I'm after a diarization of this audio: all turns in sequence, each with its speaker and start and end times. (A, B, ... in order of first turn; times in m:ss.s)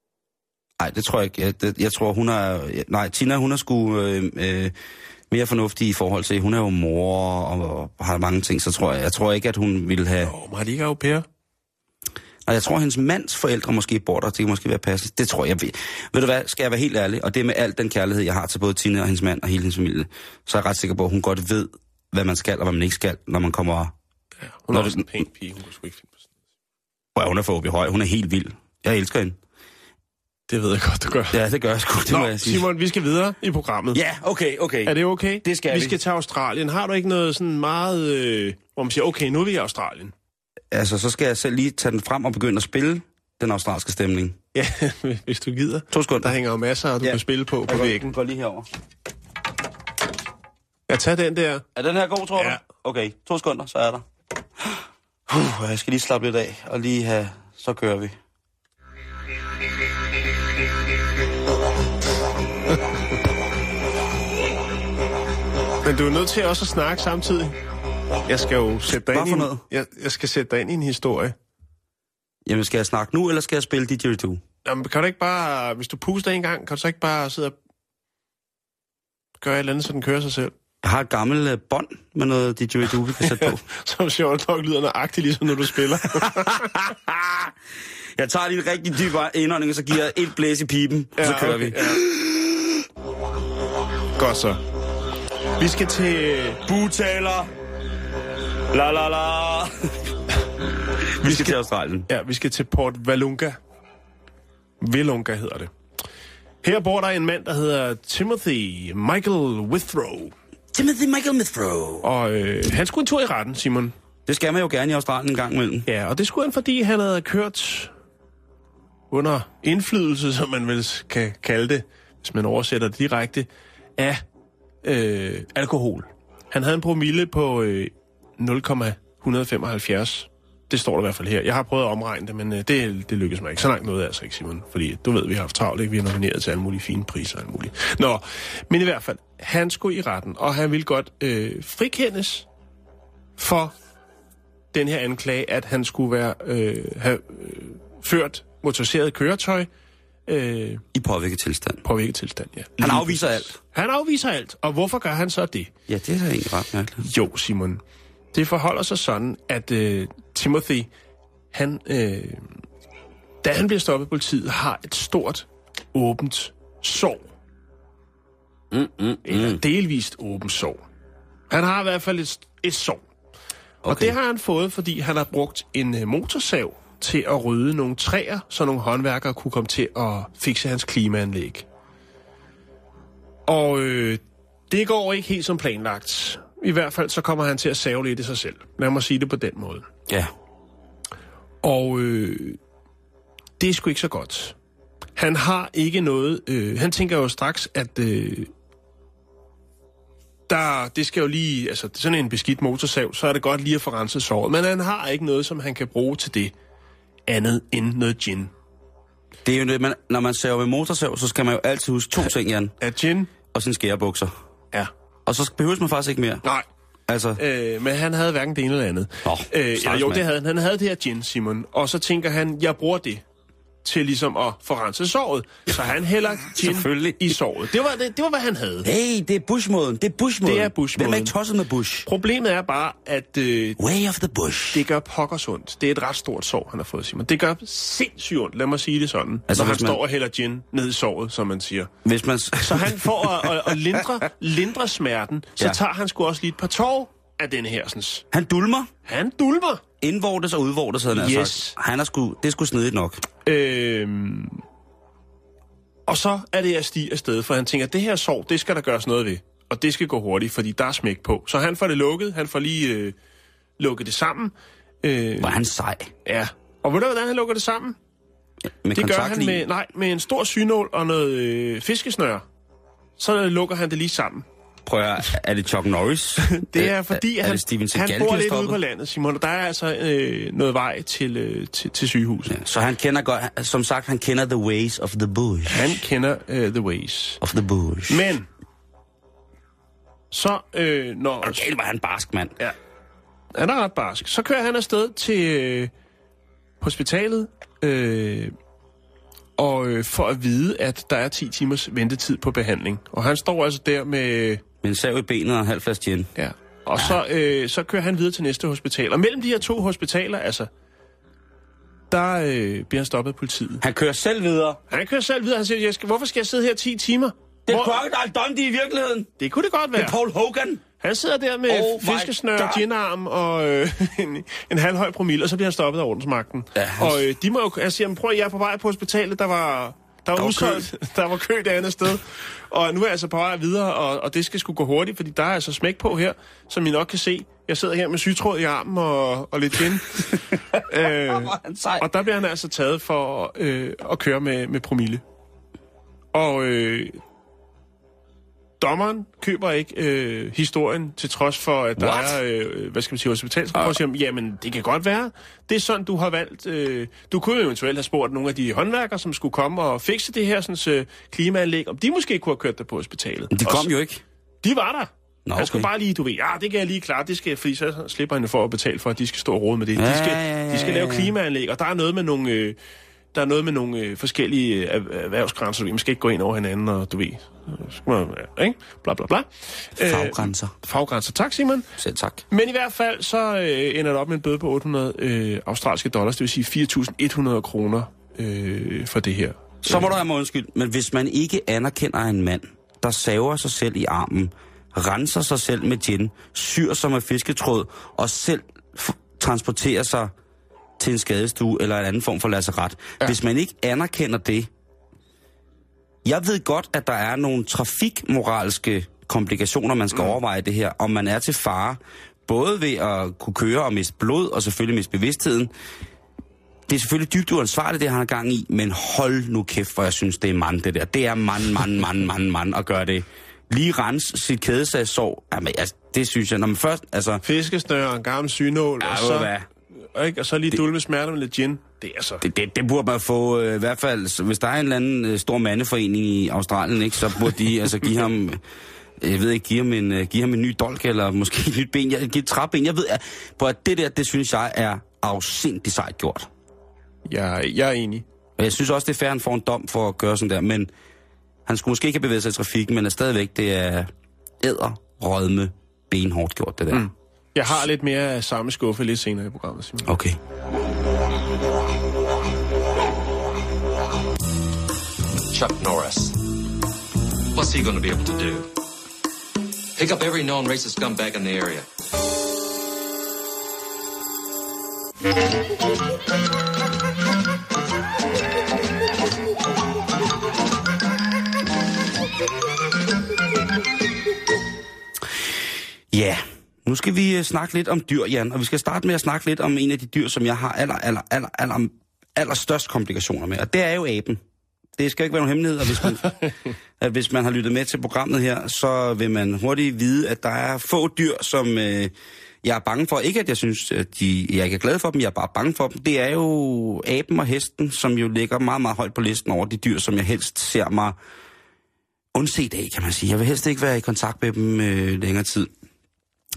0:00.8-0:04.7 A
0:05.3-0:10.3 A
0:10.2-0:11.2 B
0:12.4-0:23.9 A
0:24.5-0:26.2 B
0:24.7-0:25.1 A
0:27.1-0:29.4 A
0:30.5-0:31.4 B
0:31.3-0:32.7 A
0:32.1-0:34.0 B
0:33.9-0:36.0 A
0:34.8-0:40.1 B
0:40.7-0:44.4 A
0:44.5-0:48.1 B
0:45.9-0:46.3 A
0:47.0-0:48.7 A
0:50.9-0:51.6 B
0:51.7-0:54.0 A
0:55.3-0:58.2 A
1:05.8-1:07.6 B
1:08.3-1:11.3 B
1:08.9-1:09.6 A
1:12.4-1:14.4 A
1:14.6-1:17.6 B
1:19.4-1:20.5 B
1:20.8-1:23.6 A
1:23.2-1:26.8 B
1:26.2-1:27.5 A
1:28.2-1:32.8 A
1:31.2-1:32.0 B
1:34.2-1:34.6 B
1:35.6-1:36.6 B
1:36.6-1:37.5 A
1:38.7-1:40.1 A
1:41.0-1:42.1 A
1:41.2-1:41.6 B
1:42.1-1:43.6 B
1:44.8-1:45.7 B
1:46.6-1:50.3 B
1:50.7-1:52.1 A
1:52.0-1:53.9 B
1:54.3-1:55.9 A
1:55.9-1:57.9 B
1:59.1-2:04.2 B
2:04.8-2:22.5 B
2:23.4-2:23.7 B
2:24.7-2:29.7 B
2:30.3-2:30.8 B
2:30.9-2:31.8 A
2:31.8-2:35.7 B
2:32.8-2:33.6 A
2:35.9-2:37.0 A
2:37.0-2:37.8 B
2:38.3-2:40.9 B
2:41.5-2:42.4 B
2:43.4-2:47.3 B
2:48.7-2:49.6 A
2:49.2-2:50.8 B
2:51.5-2:53.0 B
2:53.8-2:54.1 A
2:53.8-3:01.6 B
3:03.5-3:09.9 B
3:11.6-3:12.6 B
3:13.6-3:14.6 B
3:15.2-3:18.5 B
3:20.5-3:26.5 B
3:27.3-3:28.5 B
3:29.4-3:32.7 A
3:32.8-3:33.3 B
3:33.5-3:34.3 A
3:35.2-3:36.4 A
3:37.1-3:37.4 A
3:37.4-3:43.2 B
3:39.2-3:40.2 A
3:43.8-3:48.9 B
3:46.5-3:47.4 A
3:48.8-3:52.1 A
3:50.4-3:51.3 B
3:52.0-3:53.8 B
3:53.8-3:54.8 A
3:54.7-4:01.9 B
3:59.5-4:00.0 A
4:02.0-4:03.7 A
4:02.6-4:08.2 B
4:08.3-4:08.9 A
4:09.0-4:09.8 B
4:10.0-4:13.2 A
4:11.1-4:11.8 B
4:13.4-4:14.6 B
4:16.1-4:23.1 B
4:23.8-4:25.5 B
4:25.4-4:26.1 A
4:26.2-4:28.0 B
4:28.8-4:29.6 A
4:28.9-4:32.4 B
4:33.2-4:34.4 B
4:34.8-4:38.8 A
4:36.5-4:42.6 B
4:42.5-4:45.9 A
4:45.7-4:47.4 B
4:47.4-4:48.3 A
4:48.1-4:48.5 B
4:50.3-4:51.6 B
4:51.4-4:52.6 A
4:53.5-4:55.9 B
4:56.8-4:58.5 B
4:59.6-5:04.6 B
5:04.8-5:06.3 A
5:06.4-5:10.7 B
5:12.1-5:13.8 B
5:13.8-5:14.8 A
5:14.9-5:18.0 B
5:17.7-5:19.3 A
5:19.4-5:20.2 B
5:19.9-5:20.8 A
5:21.0-5:45.2 B
5:21.7-5:22.8 A
5:26.7-5:27.2 A
5:30.3-5:30.9 A
5:40.3-5:42.1 A
5:46.3-5:47.2 B
5:48.8-6:03.9 B
5:52.0-5:52.4 A
6:03.5-6:04.2 A
6:04.6-6:12.8 B
6:05.4-6:05.9 A
6:10.0-6:11.3 A
6:13.3-6:21.9 B
6:20.0-6:20.7 A
6:22.0-6:22.4 A
6:22.5-6:30.1 B
6:29.8-6:40.3 A
6:41.0-6:44.7 A
6:46.2-6:55.7 A
6:56.9-7:07.4 A
7:07.4-7:09.5 B
7:09.0-7:09.7 A
7:10.0-7:12.4 B
7:12.4-7:18.6 A
7:19.2-7:26.5 A
7:27.2-7:28.2 B
7:28.6-7:30.9 A
7:31.6-7:37.1 A
7:36.9-7:40.1 B
7:40.0-7:40.4 A
7:45.5-7:46.3 C
7:47.6-7:48.6 C
7:50.0-7:51.8 C
8:06.1-8:14.4 A
8:15.0-8:31.2 A
8:32.3-8:35.7 A